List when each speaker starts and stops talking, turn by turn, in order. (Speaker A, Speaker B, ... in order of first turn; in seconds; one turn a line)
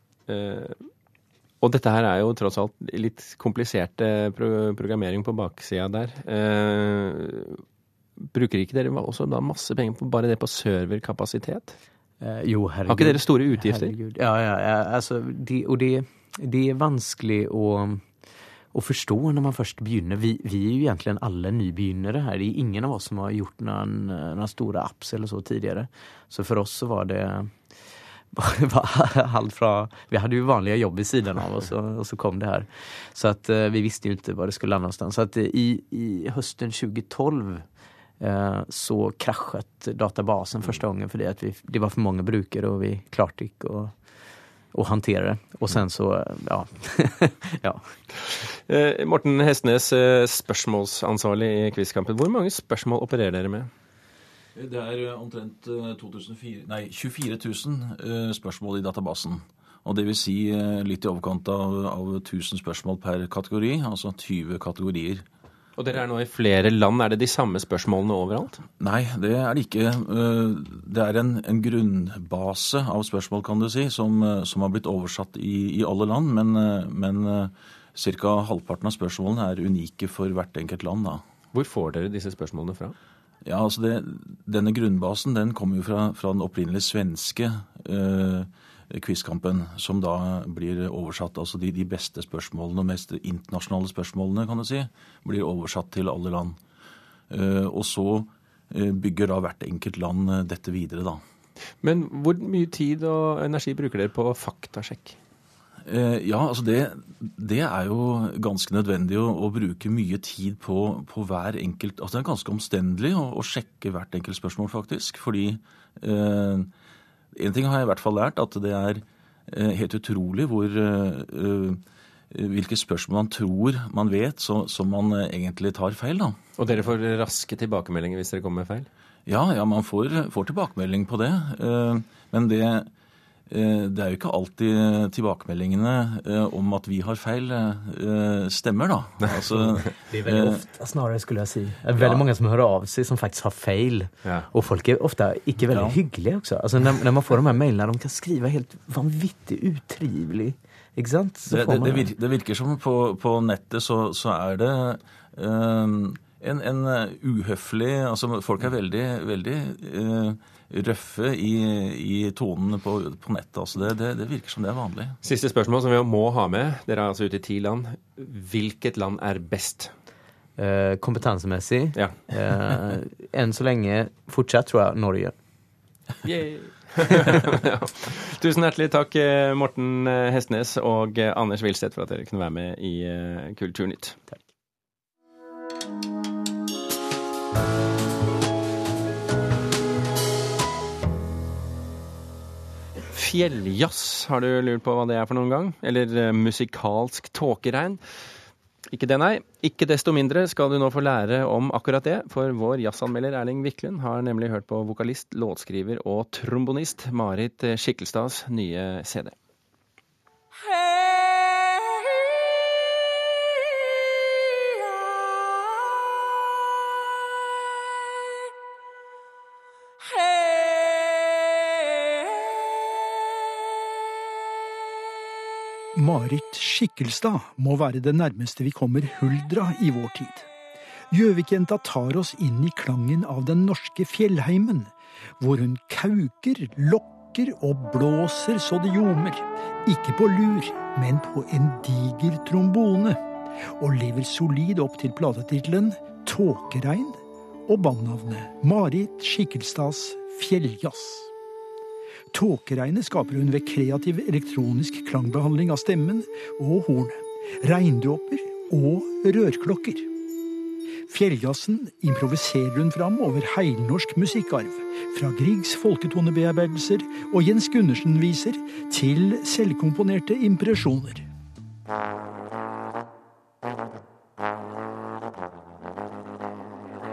Speaker A: 0.3-0.9
Speaker A: 1.6-7.6
Speaker A: 8.2-11.8
Speaker B: 12.2-37.7
Speaker A: 12.9-13.9
Speaker B: 38.2-44.0
Speaker B: 44.7-48.0
Speaker A: 48.7-53.7
Speaker C: 54.5-65.2
Speaker A: 65.8-68.6
Speaker C: 68.8-81.2
Speaker A: 81.5-83.0
Speaker C: 83.5-96.6
Speaker C: 97.3-101.2
Speaker A: 101.8-105.2
Speaker C: 105.8-116.7
Speaker C: 117.3-126.4
Speaker A: 126.6-128.9
Speaker C: 129.3-132.9
Speaker C: 133.5-140.7
Speaker B: 139.9-152.1
Speaker C: 145.6-146.0
Speaker C: 151.5-165.2
Speaker A: 165.2-169.9
Speaker B: 170.6-175.3
Speaker A: 176.2-184.2
Speaker A: 193.1-198.0
Speaker A: 198.9-209.3
Speaker D: 225.9-230.5
Speaker D: 231.1-243.2
Speaker D: 243.8-251.3
Speaker D: 252.3-260.1
Speaker D: 261.1-271.2